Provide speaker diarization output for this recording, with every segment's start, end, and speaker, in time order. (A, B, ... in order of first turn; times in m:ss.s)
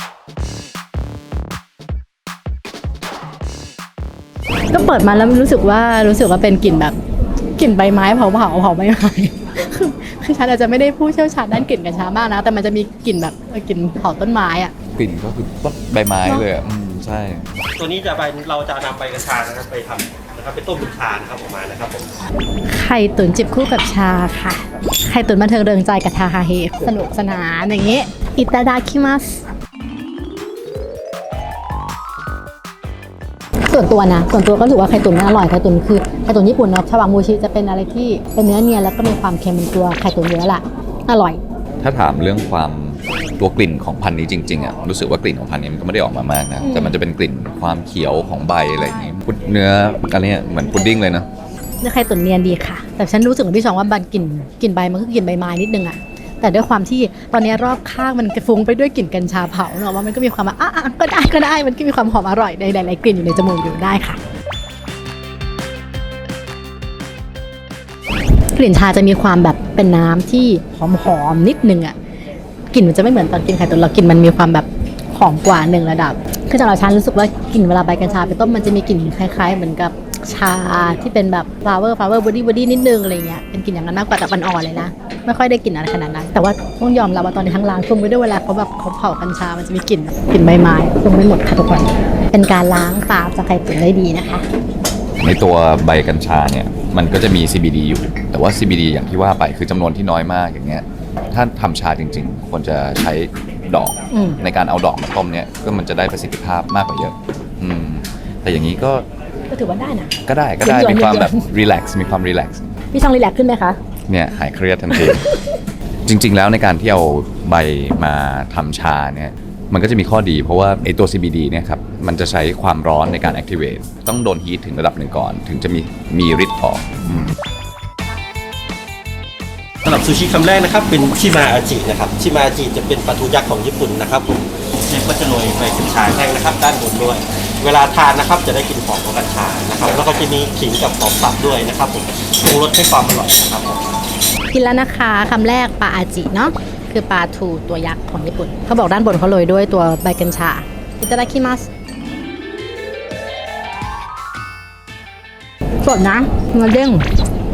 0:04.7-0:07.0 A
0:07.6-0:14.7 A
0:14.9-0:17.5 B
0:17.8-0:22.2 C
0:22.7-0:29.4 A
0:33.7-0:41.4 A
0:41.8-0:51.3 B
0:46.6-0:46.9 A
0:51.8-1:04.2 A
1:08.5-1:11.9 A
1:12.7-1:34.5 A
1:35.2-1:49.0 B
1:44.1-1:44.4 A
1:49.5-1:51.4 A
1:50.2-1:52.6 B
1:52.9-1:53.8 A
1:54.1-1:55.2 B
1:54.9-1:55.3 A
1:56.0-2:07.3 B
2:09.8-2:23.8 C
2:24.5-2:31.7 A
2:35.8-2:37.1 A